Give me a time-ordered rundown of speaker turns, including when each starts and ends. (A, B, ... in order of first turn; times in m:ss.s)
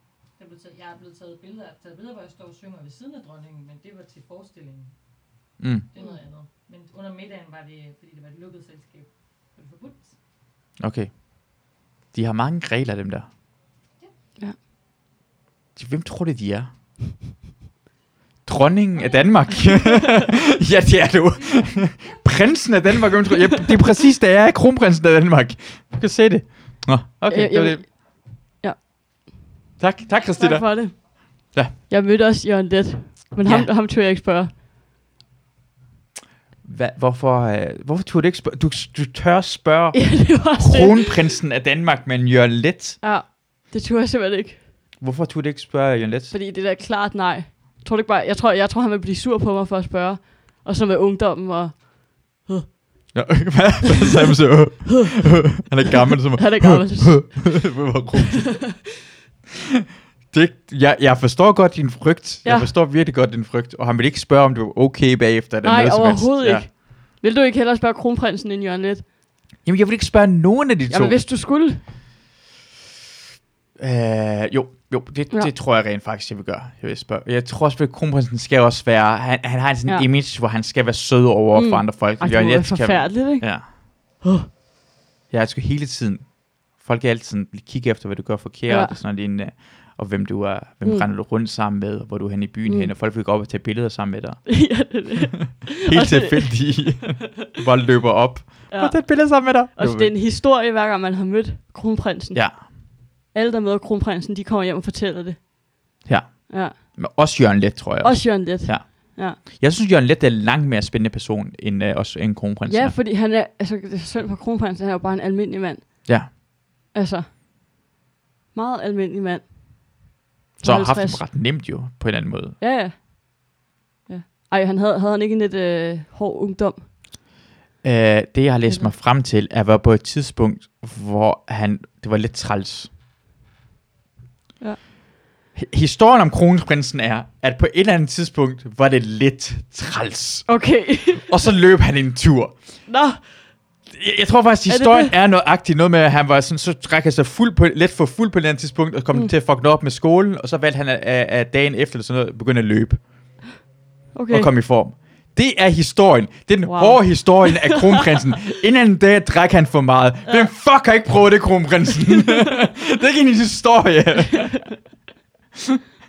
0:00.4-0:04.9 A
0:05.6-0:05.9 B
0:05.9-0:10.1 A
0:06.0-0:06.2 C
0:10.8-0:13.3 B
0:15.8-0:16.7 B
0:18.5-0:27.9 B
0:19.0-0:20.2 A
0:27.3-0:28.8 C
0:29.8-0:31.7 B
0:30.4-0:34.5 C
0:33.4-0:33.7 B
0:36.6-0:43.0 B
0:39.9-0:41.1 C
0:43.0-0:44.6 C
0:45.0-0:46.3 B
0:46.3-0:53.1 C
0:53.1-0:58.9 B
0:56.4-0:57.6 C
0:58.2-0:58.9 C
1:00.3-1:06.7 B
1:02.4-1:02.7 C
1:05.6-1:09.0 C
1:09.6-1:11.2 B
1:10.9-1:11.8 C
1:13.8-1:23.7 B
1:21.6-1:24.5 C
1:25.3-1:40.1 B
1:28.7-1:29.0 C
1:34.5-1:36.5 C
1:38.7-1:45.6 C
1:42.3-1:42.7 B
1:46.0-1:53.0 B
1:46.5-1:46.8 C
1:48.0-1:49.4 C
1:52.7-1:56.1 C
1:56.1-1:56.3 B
1:56.9-1:57.3 C
1:58.5-2:00.0 C
2:00.6-2:01.2 C
2:00.6-2:02.6 B
2:02.6-2:03.5 C
2:04.1-2:06.9 C
2:07.8-2:12.9 B
2:15.6-2:22.8 B
2:20.5-2:21.2 C
2:22.9-2:23.4 C
2:23.9-2:33.0 B
2:24.7-2:25.1 C
2:34.1-2:34.5 C
2:34.3-2:44.7 B
2:36.6-2:38.0 C